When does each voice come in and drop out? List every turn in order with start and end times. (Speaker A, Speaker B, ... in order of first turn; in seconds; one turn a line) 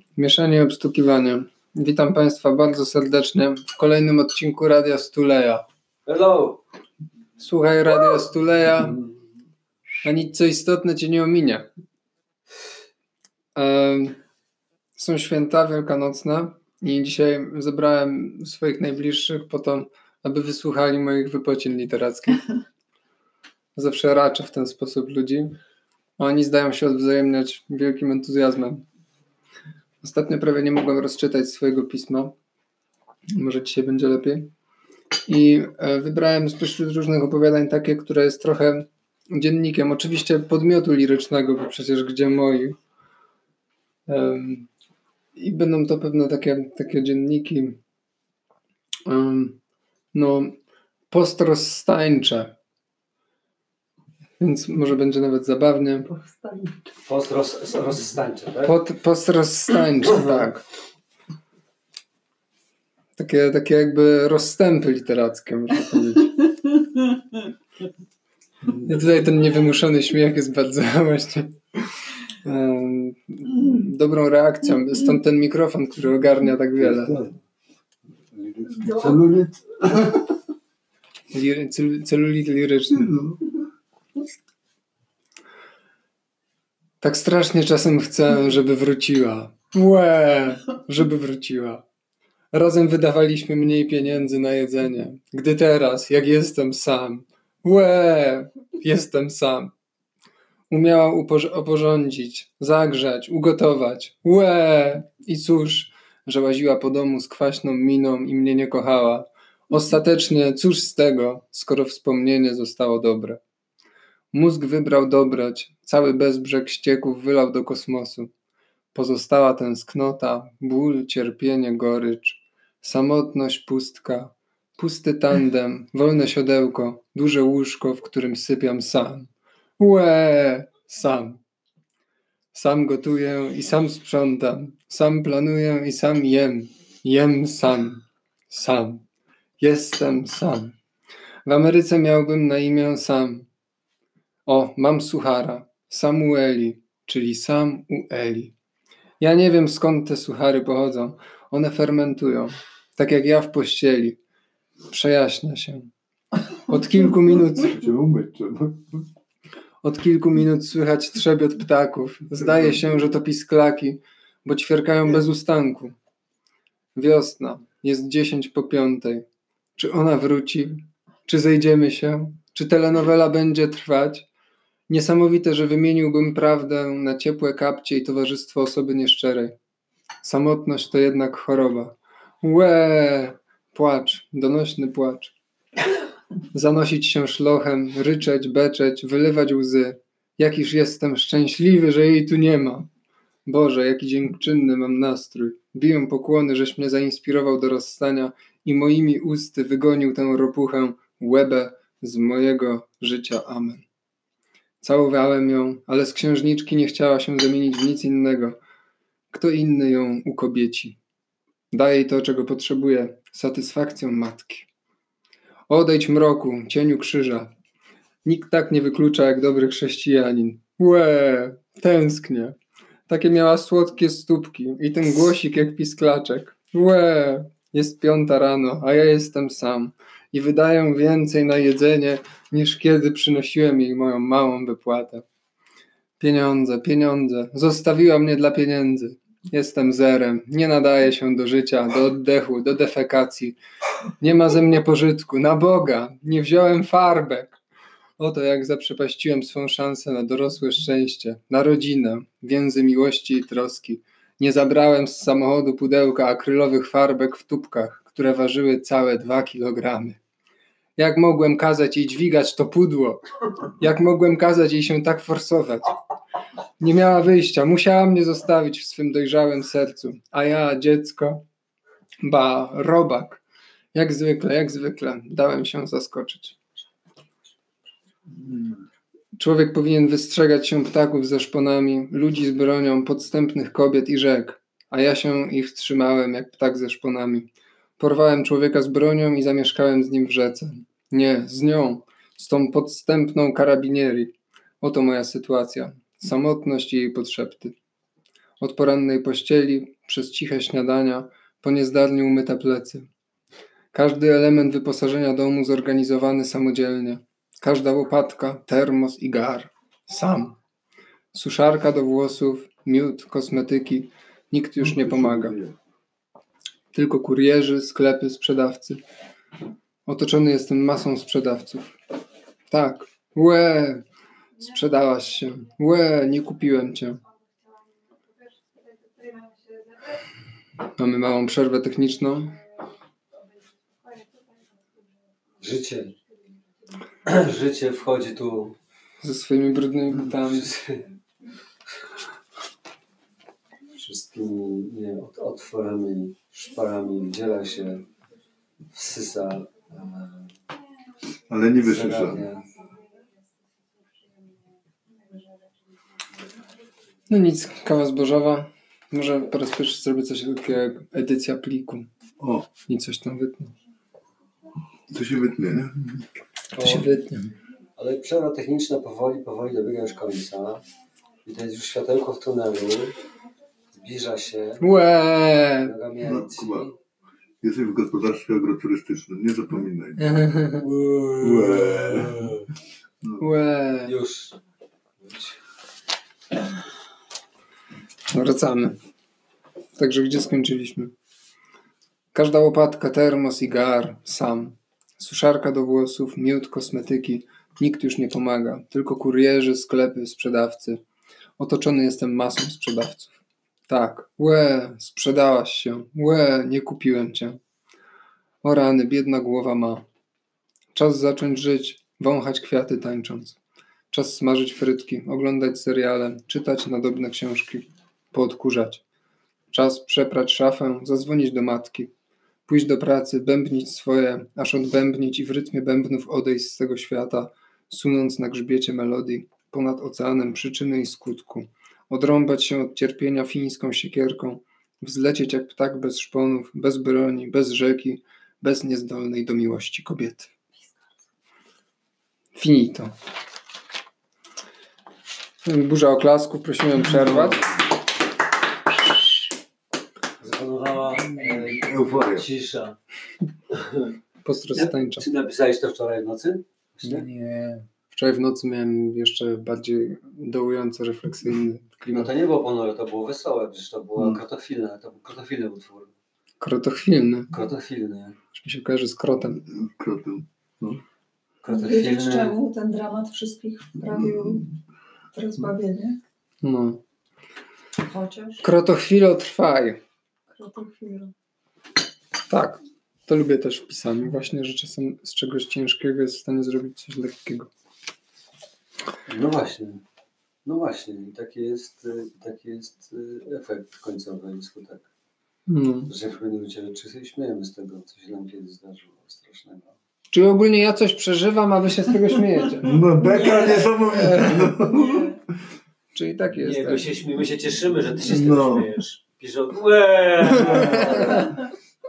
Speaker A: 0.2-5.6
Speaker B: 6.1-6.6
Speaker A: 7.4-9.0
Speaker A: 10.0-11.7
Speaker A: 13.6-14.2
Speaker A: 15.0-22.5
Speaker A: 23.8-25.6
Speaker A: 26.2-28.8
Speaker A: 30.0-32.3
Speaker A: 33.3-34.5
Speaker A: 35.3-42.8
Speaker A: 44.1-44.7
Speaker A: 45.4-47.8
Speaker A: 49.1-49.6
Speaker A: 50.1-50.6
Speaker A: 51.1-52.5
Speaker A: 54.4-56.1
Speaker C: 56.1-56.8
Speaker B: 57.0-58.8
Speaker A: 58.6-60.6
Speaker A: 63.2-66.4
Speaker A: 68.8-71.6
Speaker A: 72.4-77.2
Speaker D: 76.8-77.4
Speaker D: 78.3-80.2
Speaker C: 78.8-79.2
Speaker A: 81.3-83.1
Speaker D: 82.9-83.5
Speaker A: 87.0-91.8
Speaker A: 92.5-99.7
Speaker A: 100.7-113.4
Speaker A: 114.3-118.3
Speaker A: 118.9-131.4
Speaker A: 132.5-139.0
Speaker A: 139.6-140.8
Speaker A: 141.5-143.5
Speaker A: 144.5-148.5
Speaker A: 149.2-154.2
Speaker A: 154.9-155.9
Speaker A: 156.7-157.8
Speaker D: 157.7-159.1
Speaker A: 159.8-166.0
Speaker A: 167.0-169.2
Speaker A: 169.8-174.3
Speaker A: 174.9-179.6
Speaker A: 180.2-185.3
Speaker A: 186.5-192.9
Speaker A: 193.5-203.8
Speaker A: 204.8-208.6
Speaker A: 209.3-211.0
Speaker A: 211.7-214.7
Speaker A: 215.7-217.5
Speaker A: 218.2-222.6
Speaker A: 223.1-235.2
Speaker A: 236.2-243.6
Speaker A: 244.2-247.6
Speaker A: 248.2-260.2
Speaker A: 261.0-263.2
Speaker A: 263.8-265.9
Speaker A: 266.8-271.4
Speaker A: 272.2-273.4
Speaker A: 273.9-276.6
Speaker D: 278.3-278.8
Speaker A: 279.4-297.8
Speaker A: 298.6-303.1
Speaker A: 303.9-310.6
Speaker A: 311.3-315.6
Speaker D: 314.8-315.8
Speaker A: 316.9-319.0
Speaker A: 320.1-322.0
Speaker A: 322.7-324.0
Speaker A: 324.6-327.2
Speaker A: 331.0-332.6
Speaker B: 335.6-336.2
Speaker B: 337.2-338.8
Speaker A: 339.2-340.7
Speaker B: 340.2-341.1
Speaker B: 344.0-348.0
Speaker B: 348.9-350.5
Speaker D: 351.5-352.5
Speaker B: 351.8-352.7
Speaker A: 357.3-362.1
Speaker D: 362.4-362.7
Speaker A: 362.9-363.7
Speaker D: 365.1-366.3
Speaker A: 366.8-367.5
Speaker B: 366.8-367.0
Speaker B: 368.0-370.8
Speaker B: 371.5-373.2
Speaker B: 373.9-374.9
Speaker A: 374.8-375.9
Speaker B: 375.9-377.0
Speaker D: 376.2-376.9
Speaker D: 377.6-380.4
Speaker A: 380.2-381.4
Speaker D: 381.4-382.6
Speaker B: 381.4-382.7
Speaker A: 383.4-384.1
Speaker B: 384.1-384.6
Speaker B: 385.2-385.6
Speaker A: 388.3-389.0
Speaker A: 390.0-391.1
Speaker A: 392.3-401.0
Speaker A: 401.6-407.6
Speaker A: 408.6-410.1
Speaker A: 410.9-413.6
Speaker A: 414.1-419.0
Speaker A: 419.7-422.1
Speaker A: 422.7-440.5
Speaker A: 442.6-443.1
Speaker A: 445.6-447.6
Speaker B: 447.1-447.7
Speaker B: 450.4-453.0
Speaker D: 451.4-452.5
Speaker B: 453.7-454.1
Speaker A: 454.4-455.3
Speaker B: 454.8-457.2
Speaker A: 457.1-462.3
Speaker B: 462.1-466.1
Speaker D: 464.2-464.4
Speaker A: 466.6-467.5
Speaker B: 467.5-468.4
Speaker A: 468.6-469.6
Speaker D: 469.6-471.0
Speaker B: 471.6-472.6
Speaker C: 471.7-474.7
Speaker D: 474.2-474.6
Speaker C: 475.3-476.2
Speaker A: 476.6-477.0
Speaker C: 478.0-478.6
Speaker A: 478.6-480.0
Speaker C: 480.5-481.3
Speaker A: 482.5-487.7
Speaker B: 489.3-490.0
Speaker B: 490.6-495.1
Speaker A: 495.7-496.1
Speaker B: 496.1-499.9
Speaker A: 500.3-503.0
Speaker D: 502.8-505.3
Speaker C: 503.1-505.4
Speaker A: 504.1-504.8
Speaker A: 506.1-507.1
Speaker B: 506.5-511.6
Speaker D: 508.2-508.9
Speaker A: 510.7-511.4